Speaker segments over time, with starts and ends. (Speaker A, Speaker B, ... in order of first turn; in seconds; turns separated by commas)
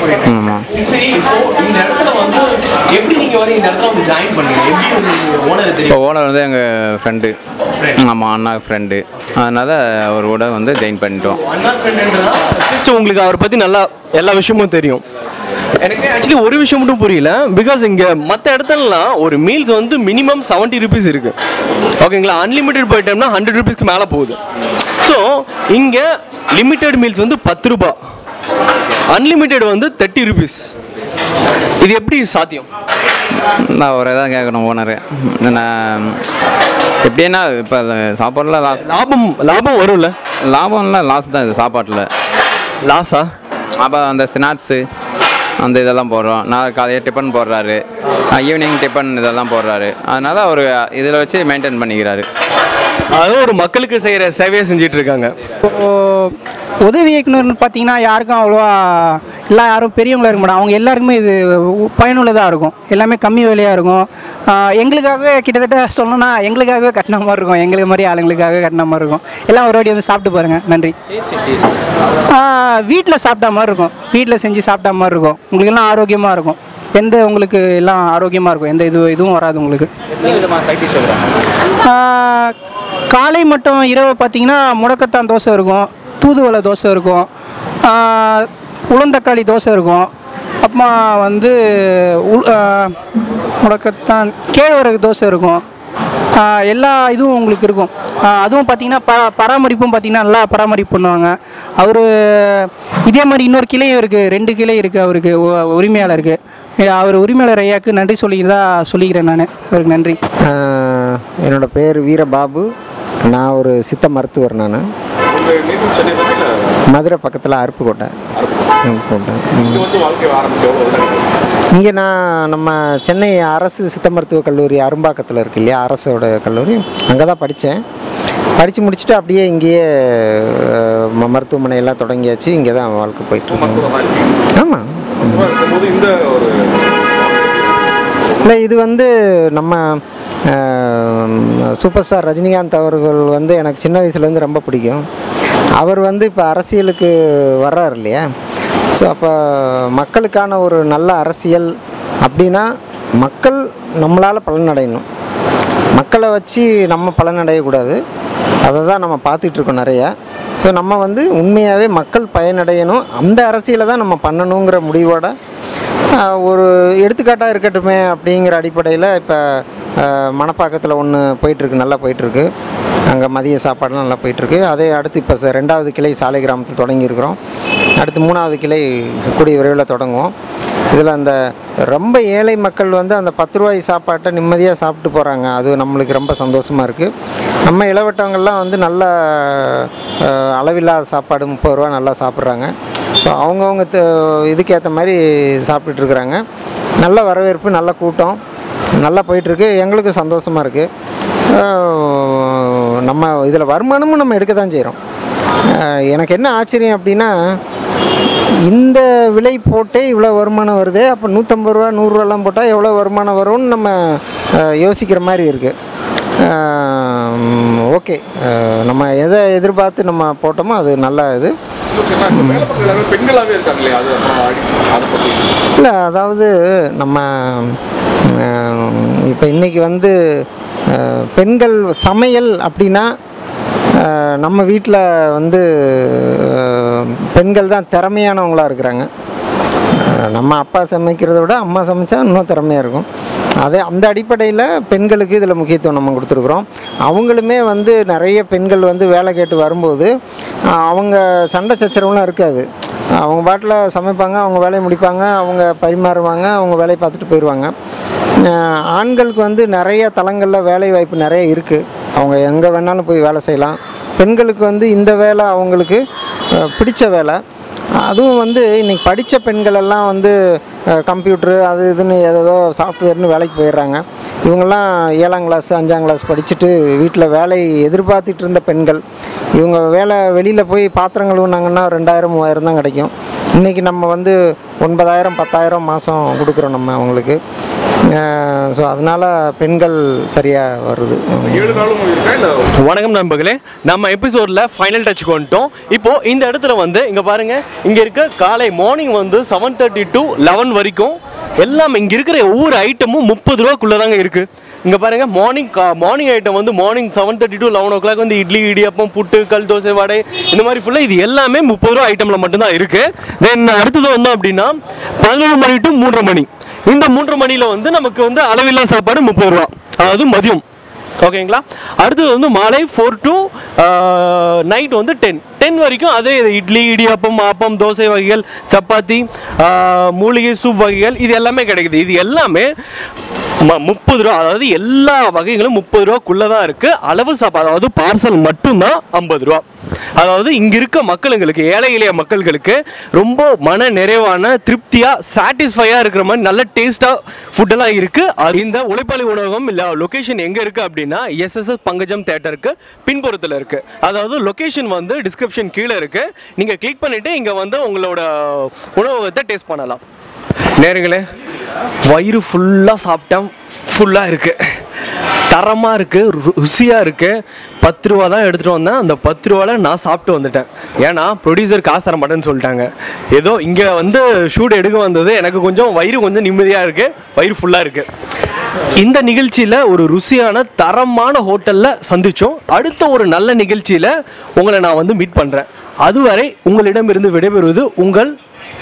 Speaker A: 0.3-0.7, Speaker B: 0.7-6.0, Speaker A: 5.9-7.3, Speaker A: 8.0-11.4, Speaker B: 11.4-15.0, Speaker B: 15.8-21.3, Speaker B: 22.0-24.4, Speaker B: 25.0-26.0, Speaker B: 26.6-28.0, Speaker B: 29.1-30.7, Speaker B: 31.8-32.7, Speaker A: 33.7-36.2, Speaker A: 37.0-38.8, Speaker B: 38.8-40.1, Speaker A: 40.5-42.1, Speaker B: 42.9-43.3, Speaker A: 43.8-44.8, Speaker A: 45.6-47.8, Speaker A: 48.4-52.2, Speaker B: 53.1-55.3, Speaker C: 55.6-70.9, Speaker C: 72.3-79.9, Speaker C: 81.8-82.5, Speaker C: 83.1-87.2, Speaker C: 87.8-90.1, Speaker C: 90.6-93.0, Speaker C: 93.6-95.6, Speaker C: 96.4-110.2, Speaker D: 110.5-112.7, Speaker D: 113.3-114.8, Speaker E: 115.5-116.5, Speaker D: 116.9-118.1, Speaker D: 118.8-119.9, Speaker E: 120.0-121.3, Speaker D: 121.8-127.8, Speaker D: 128.6-133.9, Speaker D: 134.6-135.6, Speaker E: 135.6-136.5, Speaker D: 138.4-145.0, Speaker D: 145.8-148.3, Speaker D: 148.9-151.7, Speaker D: 152.2-152.7, Speaker D: 153.2-155.0, Speaker D: 155.9-158.0, Speaker D: 158.6-165.3, Speaker D: 166.2-172.5, Speaker D: 173.1-177.3, Speaker D: 178.0-180.3, Speaker D: 180.9-181.3, Speaker D: 181.9-187.1, Speaker D: 187.7-196.4, Speaker D: 197.0-198.4, Speaker D: 199.0-200.9, Speaker D: 201.6-205.0, Speaker D: 205.7-207.5, Speaker D: 208.7-215.7, Speaker D: 216.5-221.5, Speaker D: 222.3-223.0, Speaker E: 223.2-225.3, Speaker D: 225.8-227.8, Speaker D: 228.3-233.1, Speaker D: 234.0-239.1, Speaker D: 240.1-243.1, Speaker D: 243.6-250.1, Speaker D: 250.8-252.7, Speaker D: 253.2-257.7, Speaker D: 258.5-266.0, Speaker D: 266.6-267.4, Speaker D: 268.0-270.3, Speaker D: 270.9-279.0, Speaker D: 279.6-287.4, Speaker D: 288.1-291.9, Speaker E: 292.0-292.5, Speaker B: 292.8-320.6, Speaker B: 321.2-332.7, Speaker B: 333.6-339.6, Speaker B: 340.2-360.0, Speaker B: 360.8-361.2, Speaker B: 362.1-364.6, Speaker B: 365.5-378.1, Speaker B: 379.0-388.3